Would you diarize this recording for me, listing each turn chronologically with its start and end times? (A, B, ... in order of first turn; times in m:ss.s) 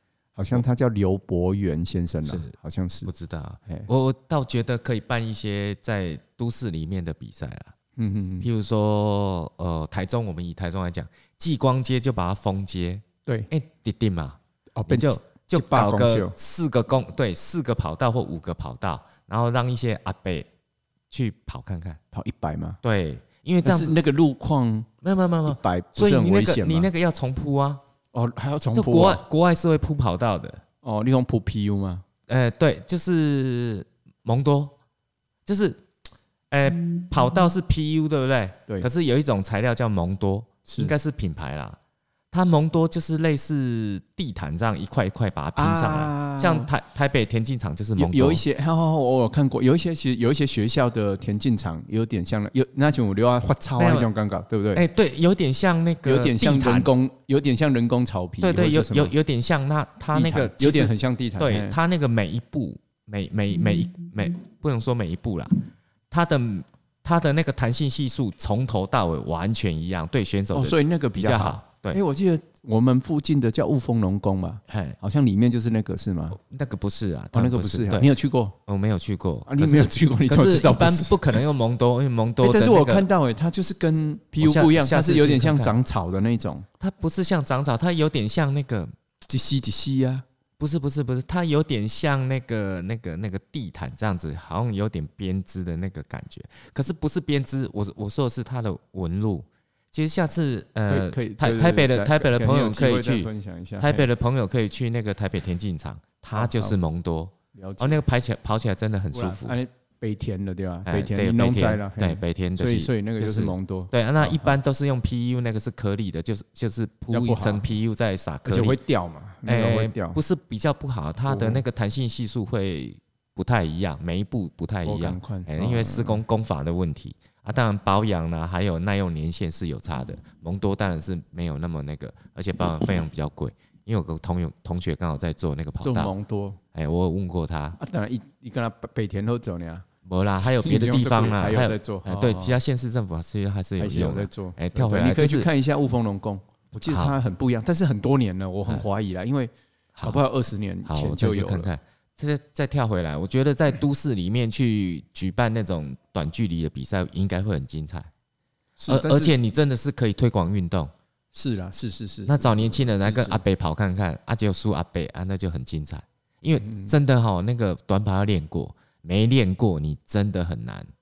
0:00.4-0:03.1 A
0:02.2-0:02.5 B
0:03.1-0:07.7 B
0:08.0-0:08.5 A
0:08.4-0:20.5 B
0:14.8-0:16.3 A
0:21.1-0:22.0 B
0:22.1-0:22.8 A
0:22.8-0:24.0 B
0:23.6-0:24.9 A
0:25.0-0:27.8 B
0:25.5-0:26.9 A
0:28.1-0:29.2 A
0:28.7-0:30.6 B
0:30.8-0:32.0 A
0:32.3-0:34.8 B
0:35.5-0:35.8 B
0:36.5-0:41.8 B
0:40.7-0:40.9 A
0:42.3-0:48.4 B
0:45.6-0:46.7 A
0:48.0-0:54.8 A
0:53.8-0:54.1 B
0:54.7-0:56.9 B
0:56.0-0:59.1 A
0:58.4-1:12.0 B
1:00.1-1:01.8 A
1:10.5-1:16.4 A
1:14.7-1:15.0 B
1:16.3-1:18.1 B
1:17.3-1:18.6 A
1:18.7-1:23.1 B
1:19.5-1:21.4 A
1:22.4-1:26.7 A
1:24.4-1:25.8 B
1:26.8-1:28.9 B
1:29.3-1:30.2 A
1:30.6-1:49.6 B
1:40.9-1:44.1 A
1:46.4-1:46.8 A
1:47.6-1:48.0 A
1:49.1-1:54.6 A
1:50.9-1:58.8 B
1:57.1-1:57.6 A
1:58.4-2:00.2 A
1:59.5-2:16.1 B
2:01.3-2:01.6 A
2:04.8-2:06.2 A
2:15.8-2:16.6 A
2:16.7-2:17.8 B
2:17.8-2:22.6 A
2:20.0-2:25.5 B
2:23.8-2:29.5 A
2:26.9-2:27.2 B
2:30.0-2:30.2 B
2:30.0-2:31.7 A
2:30.9-2:38.1 B
2:38.8-2:39.4 A
2:38.9-2:40.9 B
2:41.3-2:43.4 A
2:42.3-2:50.9 B
2:46.6-2:47.0 A